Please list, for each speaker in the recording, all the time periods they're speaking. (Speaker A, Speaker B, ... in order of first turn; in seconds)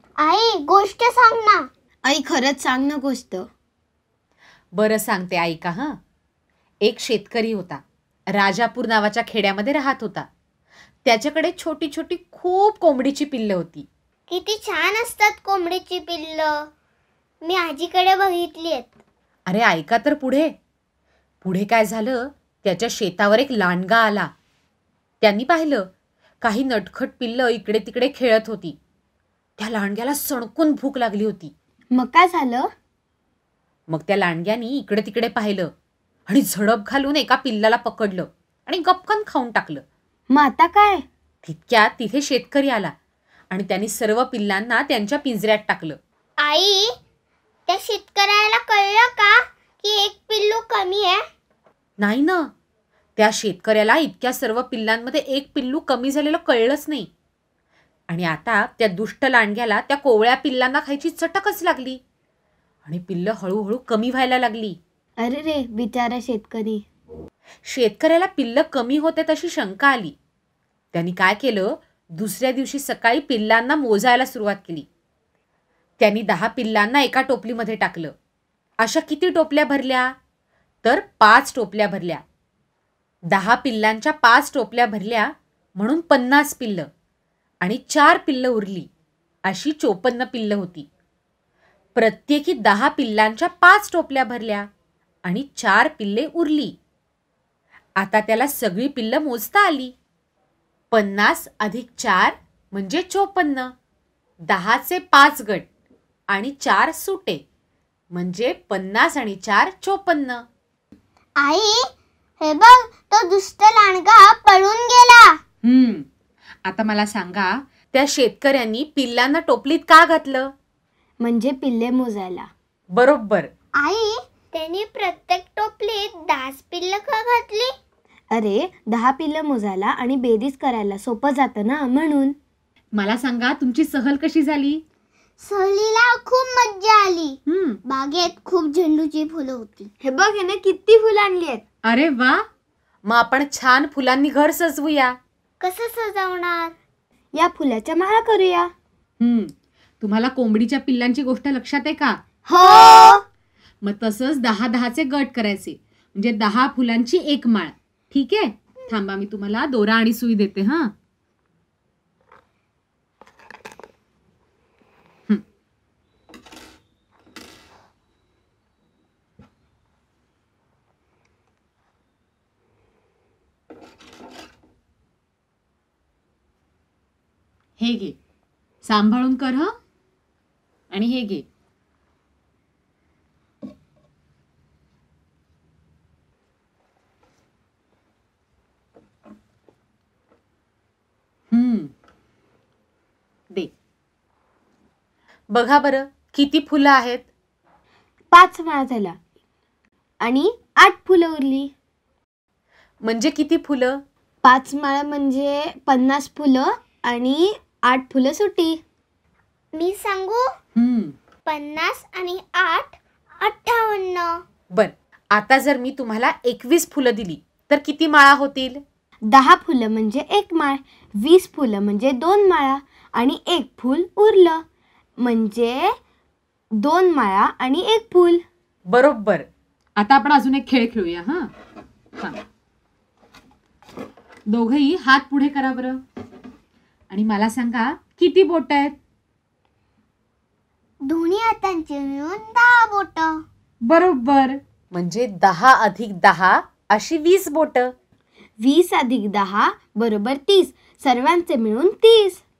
Speaker A: 0.2-1.7, 14.3-16.7, 17.4-19.0, 46.4-46.9, 47.7-51.2, 111.4-111.8, 112.4-115.3, 123.8-127.7, 135.4-137.4, 137.9-139.9, 145.6-146.8, 209.7-210.5, 211.5-214.4, 241.0-243.4
Speaker B: 2.0-3.5, 31.9-32.7, 40.3-41.0, 65.2-66.8, 121.2-122.5, 128.3-132.3, 140.0-141.6, 147.3-148.7, 152.5-153.2, 198.3-199.2, 200.2-201.7, 204.4-208.8, 219.3-224.6, 225.2-225.9, 226.8-228.4, 248.6-252.4
Speaker C: 4.7-6.0, 6.8-10.3, 11.1-13.9, 19.5-20.5, 21.4-24.3, 25.2-25.9, 26.4-28.8, 29.6-31.5, 33.9-35.7, 36.3-39.8, 41.4-42.9, 43.5-46.0, 52.0-52.5, 53.2-57.1, 58.1-62.0, 62.9-64.8, 67.7-70.2, 70.9-74.9, 76.0-78.1, 78.8-80.1, 80.8-82.2, 83.3-86.9, 87.6-88.9, 89.5-90.9, 92.0-94.7, 95.2-96.8, 98.0-99.9, 100.9-103.7, 104.5-105.7, 106.3-107.4, 108.1-110.4, 115.6-116.1, 116.7-120.5, 122.9-123.5, 132.9-134.8, 137.5-137.8, 141.8-142.4, 143.1-145.2, 149.2-152.2, 153.8-160.9, 177.8-178.2, 178.8-179.7, 180.9-181.5, 191.5-191.9, 195.5-197.3, 203.0-204.0, 210.8-211.2, 214.7-218.8, 228.9-229.5, 230.0-231.5, 234.5-236.0, 237.1-239.0, 243.9-247.9